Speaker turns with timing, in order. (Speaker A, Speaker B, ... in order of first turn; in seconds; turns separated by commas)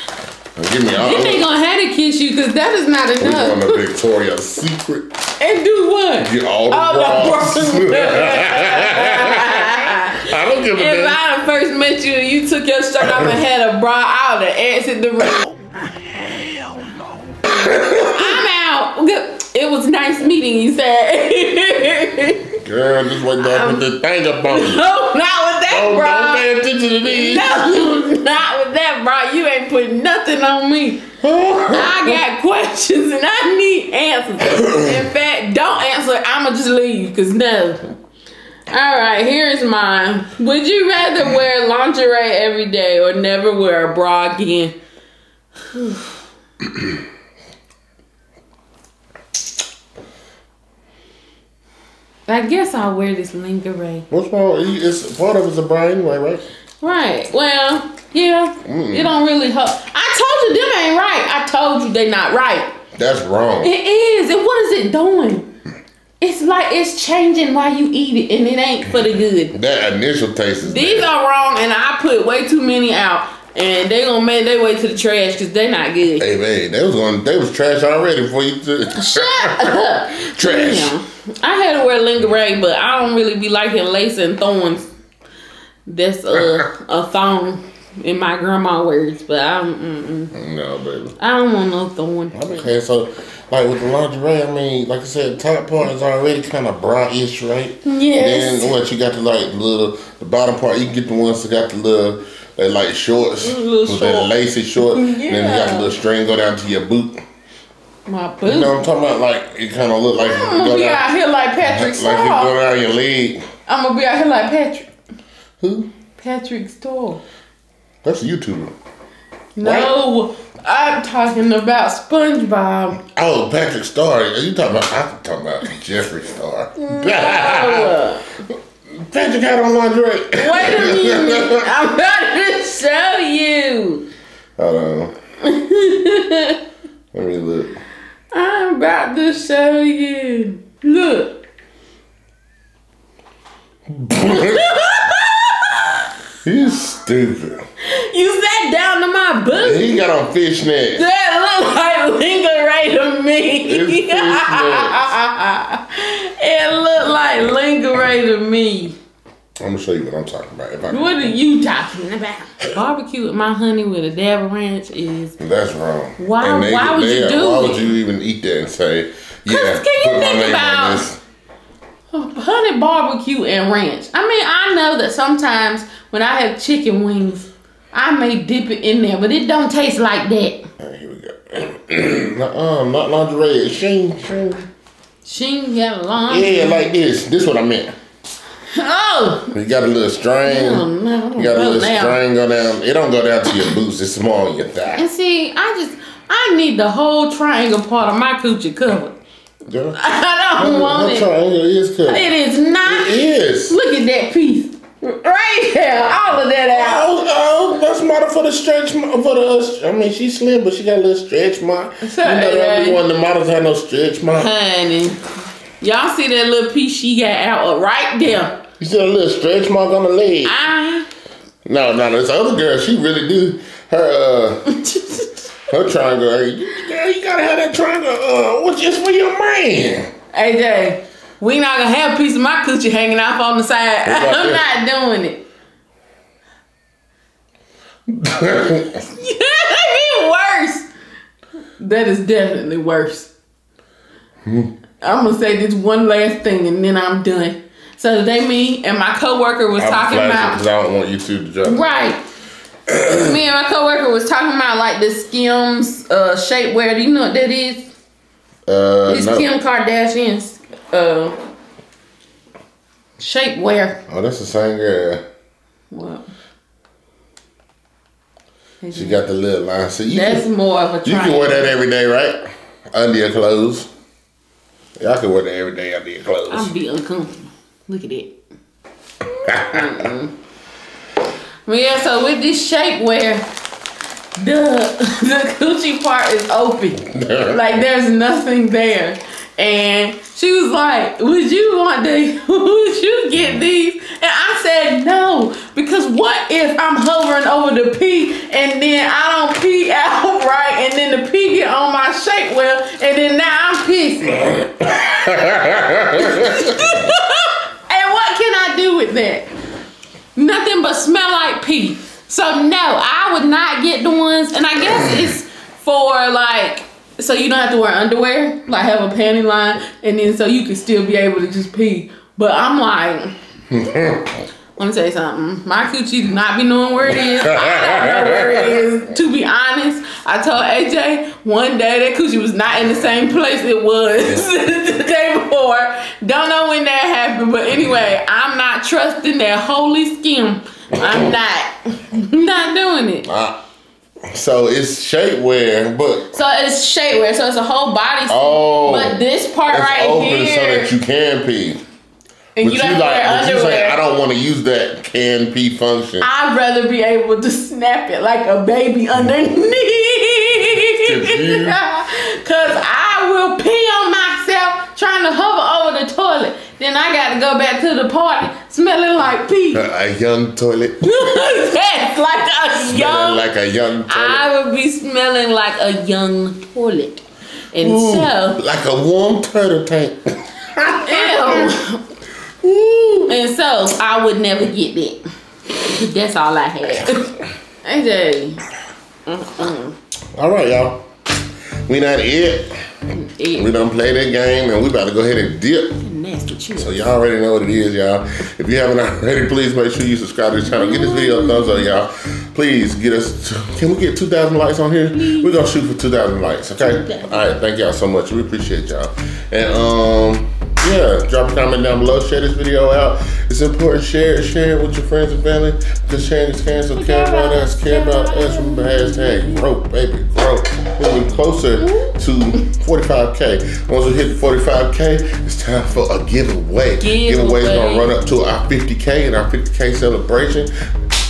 Speaker A: 0.6-1.4, Speaker B: 0.9-3.8, Speaker A: 3.2-5.1, Speaker B: 5.4-15.4, Speaker A: 6.2-11.2, Speaker A: 13.0-13.3, Speaker A: 17.5-18.4, Speaker B: 17.7-22.5, Speaker A: 22.5-24.9, Speaker B: 23.4-23.8, Speaker B: 24.5-26.4, Speaker A: 25.7-27.9, Speaker B: 27.0-31.0, Speaker A: 31.2-32.2, Speaker B: 31.7-37.8, Speaker B: 38.7-44.8, Speaker B: 45.7-46.1, Speaker B: 52.3-54.0, Speaker A: 54.1-56.4, Speaker B: 56.8-62.8, Speaker A: 58.6-59.1, Speaker A: 62.9-63.7, Speaker B: 63.6-65.5, Speaker B: 66.2-69.5, Speaker A: 69.5-71.1, Speaker B: 70.6-76.2, Speaker A: 76.2-80.9, Speaker B: 79.0-84.9, Speaker B: 85.9-90.3, Speaker A: 90.3-91.2, Speaker B: 91.2-92.7, Speaker A: 92.3-107.2, Speaker B: 97.8-98.7, Speaker B: 103.4-105.9, Speaker B: 108.0-108.8, Speaker A: 108.4-113.5, Speaker B: 110.1-112.5, Speaker B: 113.7-114.9, Speaker A: 115.6-115.9, Speaker B: 116.2-117.2, Speaker A: 118.0-118.7, Speaker B: 119.5-123.0, Speaker A: 119.6-119.9, Speaker A: 123.0-128.0, Speaker B: 126.8-128.3, Speaker A: 128.9-131.7, Speaker B: 130.3-134.0, Speaker A: 134.6-135.1, Speaker B: 135.4-136.6, Speaker A: 137.1-137.8, Speaker B: 138.3-141.4, Speaker A: 143.9-144.7, Speaker B: 144.2-146.0, Speaker A: 146.4-147.6, Speaker B: 147.8-150.0, Speaker A: 149.6-151.1, Speaker B: 150.9-158.9, Speaker A: 153.6-155.1, Speaker A: 159.6-161.3, Speaker B: 160.9-165.3, Speaker A: 165.4-171.2, Speaker B: 166.2-167.9, Speaker B: 169.5-171.0, Speaker B: 172.1-180.7, Speaker A: 180.8-184.7, Speaker B: 185.2-186.9, Speaker A: 186.3-187.9, Speaker B: 188.7-189.5, Speaker A: 189.5-195.1, Speaker B: 190.4-192.2, Speaker B: 194.9-199.1, Speaker A: 199.7-200.0, Speaker B: 199.9-201.3, Speaker A: 200.6-202.3, Speaker B: 202.1-207.0, Speaker A: 202.8-203.8, Speaker A: 206.7-214.5, Speaker B: 212.0-213.0, Speaker B: 214.3-215.2, Speaker B: 215.8-218.6, Speaker A: 218.8-220.6, Speaker B: 220.4-221.1, Speaker A: 221.6-224.8, Speaker B: 224.7-225.3, Speaker A: 225.7-230.1, Speaker B: 230.3-235.4, Speaker A: 234.0-234.6, Speaker A: 238.1-239.0, Speaker B: 239.0-240.9, Speaker B: 241.8-243.3, Speaker A: 244.4-244.7, Speaker B: 245.0-250.6, Speaker A: 249.7-251.9, Speaker B: 251.6-252.2, Speaker A: 252.9-253.4, Speaker B: 253.2-257.9, Speaker A: 258.6-259.5, Speaker B: 259.1-261.4, Speaker B: 263.2-264.0, Speaker A: 264.1-265.2, Speaker B: 265.9-266.3, Speaker B: 268.8-269.2, Speaker A: 268.9-270.5, Speaker B: 270.1-271.7, Speaker A: 271.0-273.9, Speaker A: 275.0-276.7, Speaker B: 276.5-278.3, Speaker A: 279.3-280.0, Speaker B: 279.7-280.3, Speaker B: 281.7-283.5, Speaker B: 284.4-304.5, Speaker A: 287.1-287.6, Speaker A: 304.8-307.0, Speaker B: 306.1-309.5, Speaker B: 310.4-323.3, Speaker A: 323.7-324.3, Speaker B: 324.8-343.3, Speaker A: 327.2-328.8, Speaker A: 343.2-343.6, Speaker A: 344.3-346.4, Speaker B: 346.3-350.9, Speaker A: 348.3-351.8, Speaker B: 352.6-354.0, Speaker A: 352.6-356.3, Speaker B: 356.2-369.8, Speaker A: 361.0-361.8, Speaker A: 369.7-371.5, Speaker B: 371.0-373.4, Speaker A: 372.8-374.4, Speaker B: 374.1-378.6, Speaker A: 377.8-381.7, Speaker B: 381.0-382.0, Speaker A: 382.6-383.3, Speaker B: 383.3-385.2, Speaker B: 385.8-388.6, Speaker B: 389.2-389.9, Speaker A: 390.3-391.1, Speaker A: 391.8-392.8, Speaker B: 393.1-393.7, Speaker A: 393.5-396.0, Speaker B: 396.0-396.9, Speaker A: 396.7-430.7, Speaker B: 400.7-401.9, Speaker B: 405.1-405.5, Speaker B: 406.9-407.3, Speaker B: 416.9-419.6, Speaker B: 421.8-422.1, Speaker B: 427.0-428.1